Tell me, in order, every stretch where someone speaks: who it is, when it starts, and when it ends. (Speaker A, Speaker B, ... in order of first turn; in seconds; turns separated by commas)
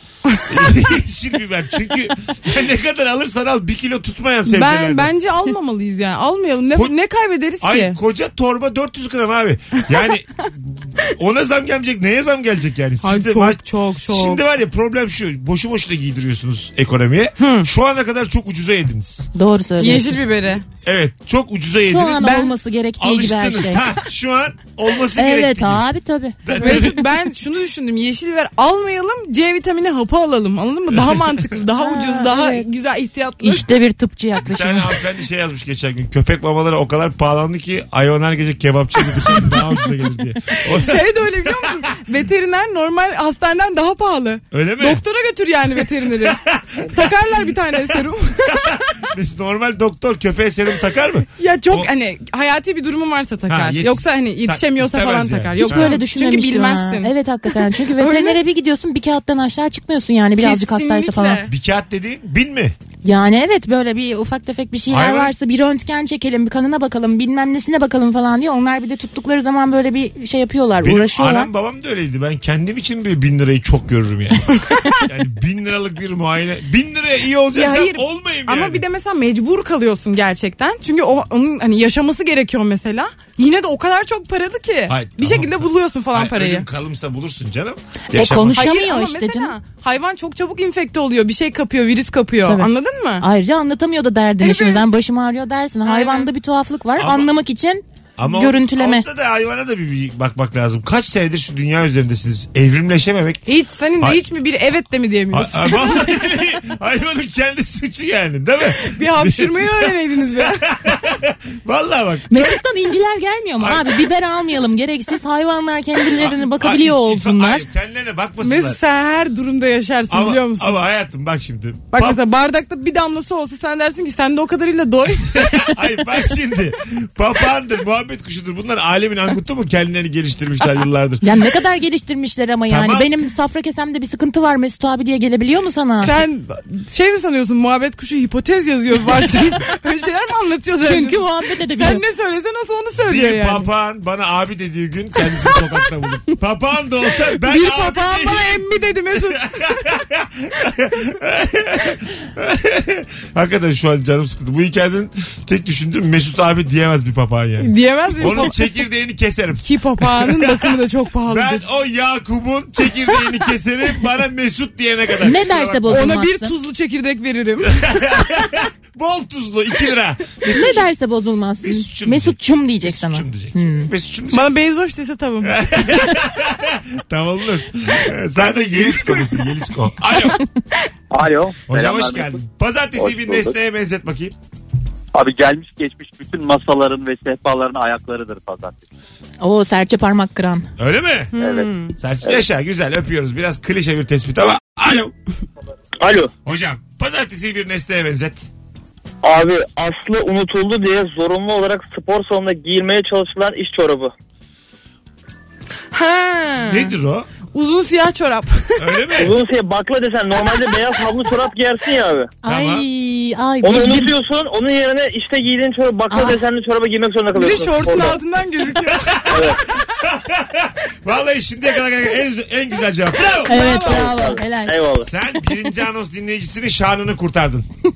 Speaker A: 0.5-5.1, Speaker B: 4.5-8.0, Speaker A: 7.6-19.3, Speaker B: 13.0-14.4, Speaker B: 17.4-17.7, Speaker C: 19.4-20.1, Speaker B: 19.8-20.6, Speaker A: 20.8-22.5, Speaker C: 21.9-23.8, Speaker B: 22.2-22.5, Speaker A: 23.0-25.9, Speaker C: 25.2-26.9, Speaker A: 26.4-27.0, Speaker B: 26.6-33.7, Speaker A: 30.9-31.5, Speaker C: 31.8-32.6, Speaker C: 33.4-34.9, Speaker A: 34.4-41.8, Speaker B: 40.6-48.8, Speaker A: 44.5-45.0, Speaker A: 46.2-51.9, Speaker B: 51.4-58.4, Speaker A: 53.5-56.0, Speaker C: 55.6-61.4, Speaker B: 60.4-61.5, Speaker A: 61.5-62.8, Speaker C: 63.0-71.5, Speaker A: 64.9-65.3, Speaker A: 70.8-78.8, Speaker B: 77.5-86.7, Speaker A: 84.9-88.7, Speaker C: 88.1-89.5, Speaker B: 88.5-93.3, Speaker C: 93.2-99.0, Speaker B: 94.4-94.8, Speaker B: 95.8-96.3, Speaker A: 97.0-97.3, Speaker A: 98.2-103.4, Speaker B: 103.5-106.0, Speaker A: 105.3-112.6, Speaker B: 108.8-110.7, Speaker C: 112.3-117.7, Speaker A: 113.6-114.0, Speaker A: 116.1-118.8, Speaker B: 118.4-120.8, Speaker A: 120.1-122.2, Speaker B: 121.9-125.6, Speaker A: 125.3-131.2, Speaker C: 131.2-136.2, Speaker A: 132.7-133.1, Speaker B: 136.0-143.7, Speaker C: 140.8-142.0, Speaker A: 143.0-166.1, Speaker B: 147.4-149.7, Speaker B: 157.6-158.6, Speaker B: 159.6-161.7, Speaker C: 165.2-166.5, Speaker B: 165.9-168.0, Speaker A: 167.7-170.9, Speaker C: 170.5-173.9, Speaker A: 171.6-174.6, Speaker B: 174.3-176.0, Speaker A: 175.4-180.4, Speaker B: 178.7-179.3, Speaker D: 181.1-182.3, Speaker A: 181.7-184.3, Speaker E: 183.0-183.5, Speaker D: 185.1-188.8, Speaker C: 189.4-190.7, Speaker A: 190.8-191.3, Speaker B: 191.3-191.9, Speaker A: 192.0-195.1, Speaker E: 196.0-196.3, Speaker A: 196.4-198.5, Speaker E: 199.2-204.1, Speaker B: 205.9-206.9, Speaker A: 206.7-207.3, Speaker B: 207.5-209.0, Speaker A: 208.8-209.3, Speaker E: 209.2-212.3, Speaker C: 212.4-214.1, Speaker A: 212.4-212.9, Speaker E: 213.6-218.2, Speaker C: 216.1-216.4, Speaker B: 217.3-219.4, Speaker A: 218.8-223.6, Speaker E: 219.3-219.6, Speaker C: 223.5-224.8, Speaker B: 223.5-224.2, Speaker E: 223.7-225.1, Speaker A: 225.0-227.7